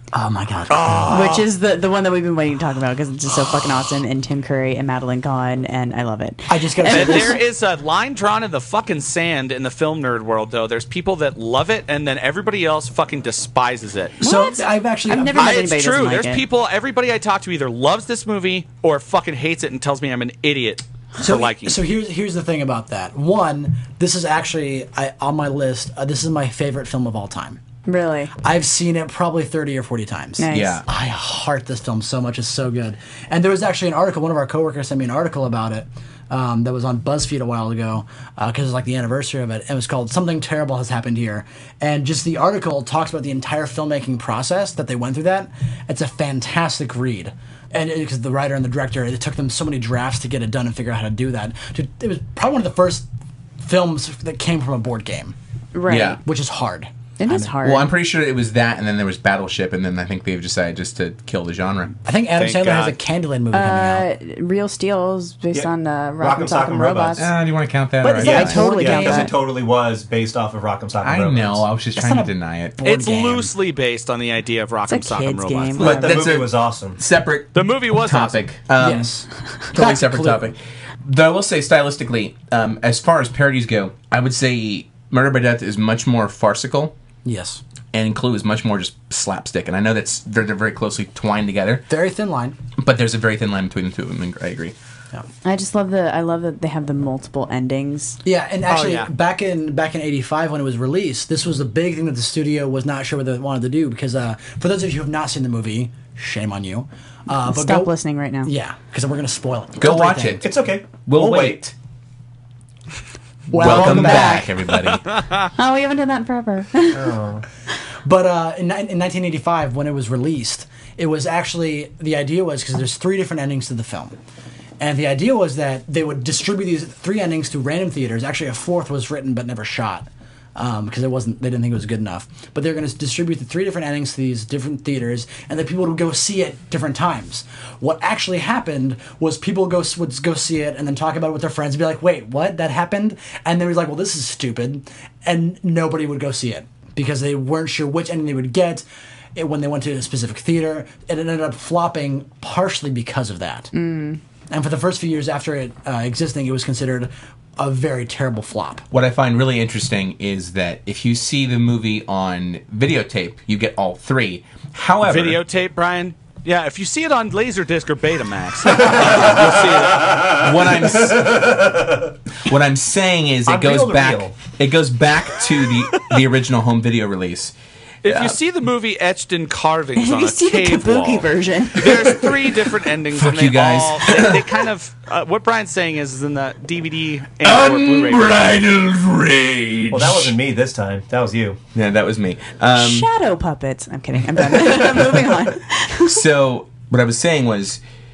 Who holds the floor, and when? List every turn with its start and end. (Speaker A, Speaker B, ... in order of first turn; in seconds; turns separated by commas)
Speaker A: 0.1-1.3, Speaker B: 0.7-1.4, Speaker C: 1.1-7.4, Speaker A: 6.5-7.4, Speaker B: 6.9-14.2, Speaker A: 14.2-15.6, Speaker C: 14.2-16.4, Speaker B: 15.3-21.8, Speaker A: 21.2-27.6, Speaker C: 27.9-28.3, Speaker A: 28.4-53.0, Speaker C: 30.4-30.8, Speaker D: 30.5-30.8, Speaker A: 53.6-55.4, Speaker C: 55.7-56.2, Speaker D: 55.9-56.2, Speaker A: 56.2-57.5, Speaker C: 57.2-57.9, Speaker D: 57.6-62.0, Speaker A: 62.0-64.0, Speaker B: 62.3-62.9, Speaker C: 63.5-67.3, Speaker E: 65.5-67.3, Speaker D: 67.2-68.8, Speaker C: 68.0-69.3, Speaker E: 68.2-71.7, Speaker A: 68.2-69.3, Speaker D: 71.0-72.8, Speaker A: 72.0-73.5, Speaker B: 72.8-75.9, Speaker C: 74.9-76.0, Speaker D: 75.8-86.9, Speaker E: 75.8-77.0, Speaker B: 77.5-78.4, Speaker A: 78.8-80.5, Speaker A: 87.2-87.6, Speaker D: 87.9-91.8, Speaker A: 91.9-92.6, Speaker D: 92.8-94.7, Speaker C: 95.4-98.2, Speaker A: 98.2-110.4, Speaker B: 98.7-99.1, Speaker C: 107.3-108.5, Speaker D: 109.8-111.7, Speaker E: 110.4-111.6, Speaker A: 113.5-114.5, Speaker D: 113.5-115.1, Speaker C: 113.6-114.5, Speaker B: 114.7-115.4, Speaker C: 115.5-117.1, Speaker E: 116.9-117.4, Speaker A: 118.0-124.2, Speaker A: 124.8-153.7, Speaker C: 153.7-154.2, Speaker A: 154.5-158.8, Speaker D: 158.9-165.4, Speaker B: 165.0-170.2, Speaker E: 168.8-172.1, Speaker D: 170.3-171.5, Speaker D: 172.5-177.5, Speaker E: 173.4-174.4, Speaker B: 178.0-188.6, Speaker D: 178.0-178.3, Speaker C: 179.9-182.2, Speaker D: 183.1-184.6, Speaker D: 187.4-190.4, Speaker E: 189.9-191.6, Speaker D: 191.7-193.1, Speaker C: 192.7-196.2, Speaker D: 194.5-195.2, Speaker D: 196.0-197.8